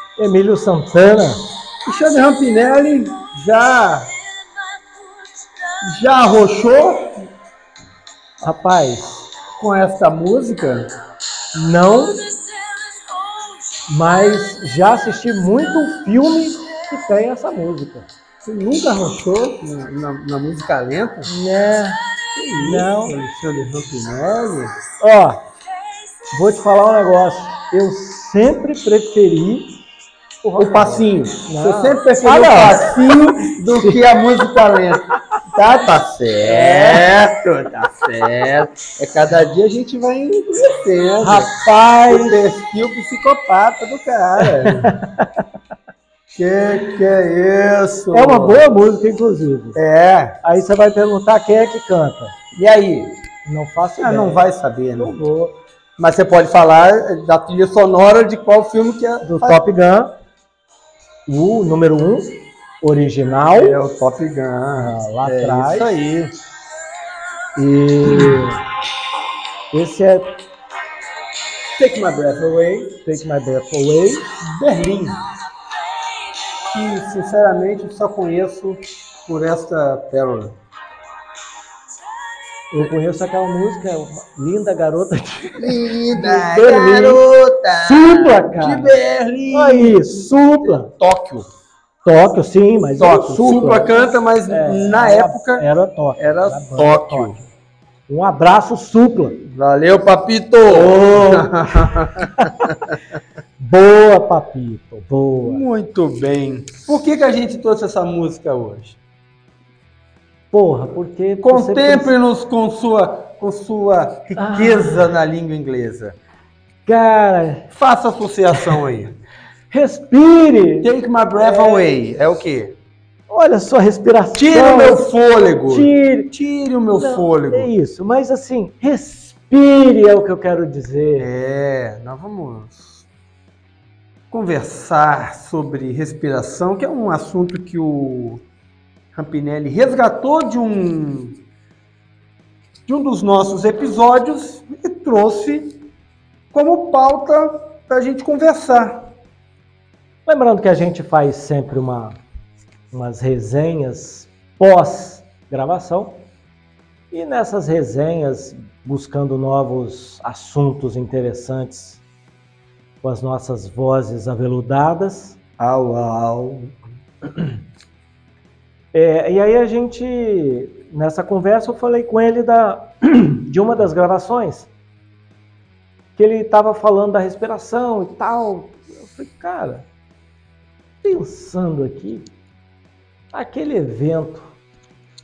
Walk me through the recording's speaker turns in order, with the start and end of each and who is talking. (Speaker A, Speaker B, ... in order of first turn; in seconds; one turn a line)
Speaker A: 0.2-1.4
Speaker B: 1.9-4.1
Speaker B: 5.8-7.2
Speaker A: 8.4-9.3
Speaker B: 9.6-10.9
Speaker A: 11.6-12.3
Speaker A: 13.9-18.1
Speaker B: 18.4-21.3
Speaker A: 21.3-22.0
Speaker B: 22.4-24.7
Speaker A: 22.5-23.2
Speaker A: 25.0-25.4
Speaker A: 26.3-29.7
Speaker A: 30.4-34.0
Speaker B: 30.6-45.0
Speaker A: 36.4-37.1
Speaker A: 41.2-42.4
Speaker A: 44.4-45.5
Speaker B: 46.4-48.7
Speaker A: 48.1-49.8
Speaker B: 49.8-50.4
Speaker A: 50.4-52.4
Speaker B: 52.5-53.1
Speaker A: 53.5-54.4
Speaker B: 54.0-55.1
Speaker A: 55.0-55.5
Speaker B: 56.0-59.7
Speaker A: 59.2-60.1
Speaker A: 61.3-63.8
Speaker B: 63.5-66.3
Speaker A: 64.8-66.0
Speaker A: 67.6-68.6
Speaker B: 68.1-68.4
Speaker A: 69.7-70.4
Speaker B: 71.8-73.0
Speaker A: 73.0-74.3
Speaker B: 74.4-75.2
Speaker B: 76.6-80.5
Speaker A: 82.7-87.2
Speaker B: 85.6-91.5
Speaker A: 87.8-89.0
Speaker A: 89.5-90.9
Speaker A: 92.0-94.0
Speaker B: 93.0-95.7
Speaker A: 94.5-97.4
Speaker B: 96.2-97.5
Speaker A: 98.1-99.4
Speaker B: 99.4-103.0
Speaker A: 100.7-102.8
Speaker A: 103.6-105.6
Speaker B: 105.4-109.0
Speaker A: 110.5-112.1
Speaker B: 111.4-116.2
Speaker A: 114.4-115.1
Speaker A: 116.9-117.7
Speaker B: 117.7-119.1
Speaker A: 118.5-118.8
Speaker A: 119.7-121.9
Speaker B: 120.8-122.8
Speaker A: 123.3-125.1
Speaker B: 124.4-127.7
Speaker A: 125.7-126.3
Speaker A: 127.0-131.3
Speaker B: 131.2-133.1
Speaker B: 134.3-138.4
Speaker B: 139.2-141.4
Speaker B: 142.9-145.8
Speaker B: 146.5-149.1
Speaker A: 150.3-152.2
Speaker A: 152.9-156.3
Speaker A: 157.1-162.0
Speaker A: 163.0-165.5
Speaker B: 165.6-166.7
Speaker A: 168.9-174.7
Speaker A: 176.2-179.9
Speaker A: 181.0-182.3
Speaker A: 183.3-184.6